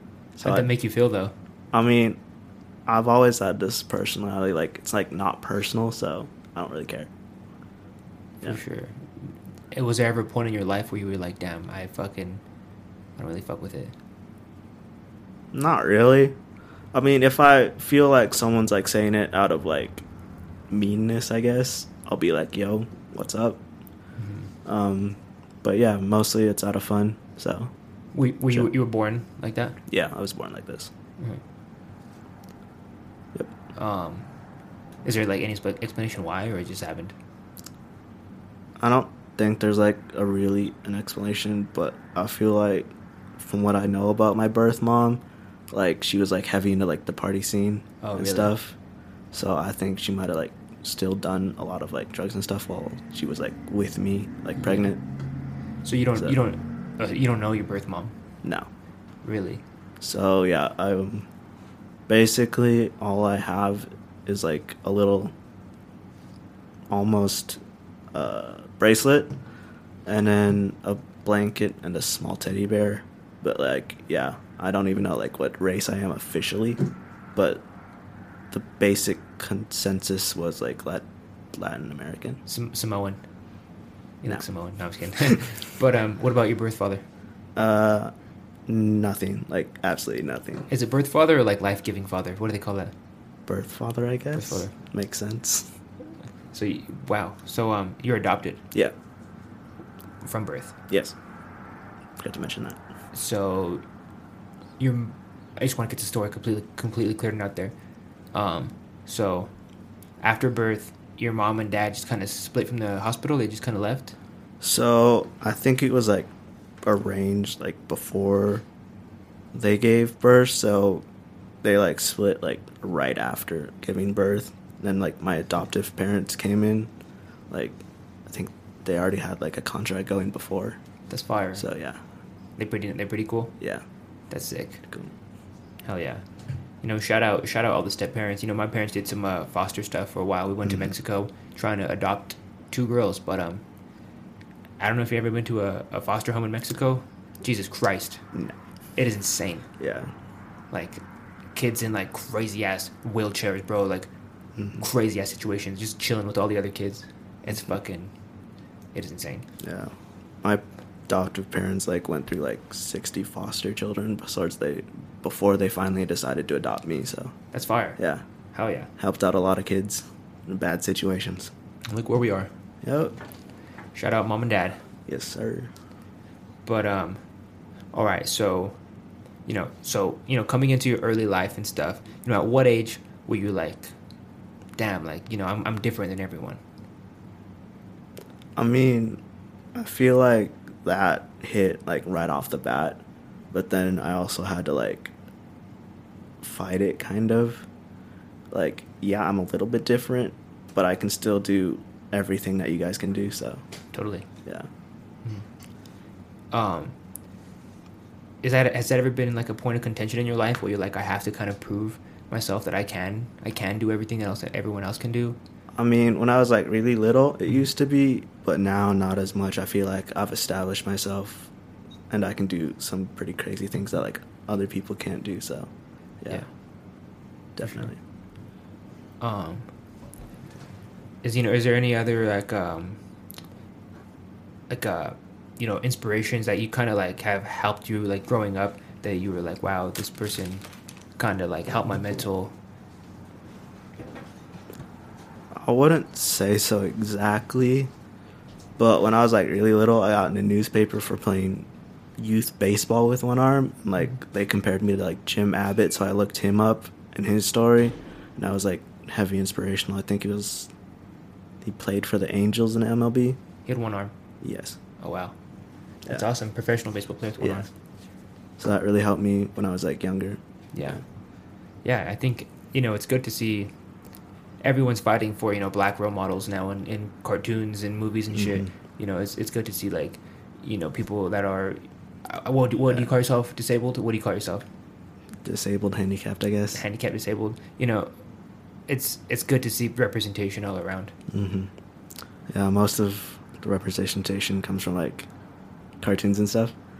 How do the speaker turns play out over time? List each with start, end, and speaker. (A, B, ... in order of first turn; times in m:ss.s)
0:00.4-0:00.7 A
0:00.4-0:01.3 B
0:01.7-0:02.2 A
0:02.8-0:07.1 A
0:08.4-0:12.4 B
0:13.2-0:13.9 B
0:15.5-0:16.4 A
0:16.9-0:20.0 A
0:20.7-0:23.6 A
0:24.2-0:24.5 B
0:24.6-0:27.7 A
0:28.1-0:29.8 B
0:29.9-0:30.9 A
0:33.8-0:34.3 B
0:35.0-0:37.1 B
0:38.8-0:48.8 A
0:48.0-0:48.5 B
0:49.3-0:55.0 A
0:54.6-0:54.9 B
0:55.8-0:58.1 B
0:58.4-0:58.7 A
0:59.2-0:59.6 B
1:00.0-1:01.3 A
1:02.1-1:05.3 A
1:06.9-1:07.6 A
1:08.1-1:09.3 A
1:10.0-1:16.8 A
1:17.3-1:17.6 A
1:18.5-1:22.4 A
1:22.4-1:23.2 B
1:24.2-1:27.0 B
1:27.6-1:28.1 A
1:28.7-1:30.7 A
1:30.7-1:32.9 B
1:33.4-1:35.7 A
1:34.3-1:34.7 B
1:36.5-1:38.6 B
1:40.2-1:40.7 B
1:40.9-1:41.1 A
1:42.2-1:42.8 A
1:43.1-1:43.8 B
1:44.8-1:47.7 B
1:48.3-1:49.5 B
1:50.2-1:54.1 B
1:54.6-1:56.3 A
1:56.8-1:58.6 A
1:59.5-2:01.0 A
2:01.6-2:06.9 A
2:07.5-2:10.8 A
2:11.1-2:11.6 B
2:11.6-2:12.0 A
2:12.6-2:13.5 B
2:14.3-2:14.8 B
2:15.8-2:16.2 B
2:16.8-2:23.6 B
2:20.6-2:20.9 A
2:24.8-2:28.2 B
2:29.0-2:29.6 B
2:29.8-2:30.1 A
2:30.7-2:31.0 B
2:31.5-2:34.1 B
2:34.7-2:38.1 B
2:38.9-2:39.5 B
2:39.6-2:47.3 A
2:47.5-2:48.0 B
2:48.0-2:48.2 A
2:48.5-2:48.9 B
2:49.0-2:51.5 A
2:51.9-2:52.5 B
2:52.8-2:53.1 A
2:53.9-2:54.8 B
2:55.1-2:55.7 A
2:56.6-2:57.2 B
2:57.9-2:58.8 B
2:59.4-3:03.9 B
3:04.8-3:06.6 B
3:08.6-3:09.2 A
3:09.7-3:13.0 A
3:13.5-3:15.1 A
3:16.4-3:17.6 A
3:18.5-3:23.6 A
3:23.9-3:24.3 B
3:26.5-3:26.9 B
3:28.4-3:35.4 B
3:35.8-3:41.5 A
3:42.1-3:45.7 A
3:47.6-3:48.0 A
3:49.2-3:49.7 B
3:51.2-3:53.0 B
3:54.7-4:00.6 B
4:01.2-4:02.5 B
4:05.6-4:07.9 A
4:08.8-4:20.7 A
4:21.6-4:23.4 A
4:23.6-4:24.1 B
4:24.4-4:24.8 A
4:25.0-4:25.3 B
4:26.1-4:27.7 B
4:27.4-4:27.6 A
4:28.6-4:30.4 A
4:30.7-4:31.0 B
4:31.8-4:33.7 B
4:34.6-4:44.6 B
4:38.3-4:38.7 A
4:45.4-4:46.8 A
4:46.7-4:48.1 B
4:48.9-4:51.1 B
4:51.3-4:51.7 A
4:52.5-4:55.3 A
4:56.0-4:56.7 A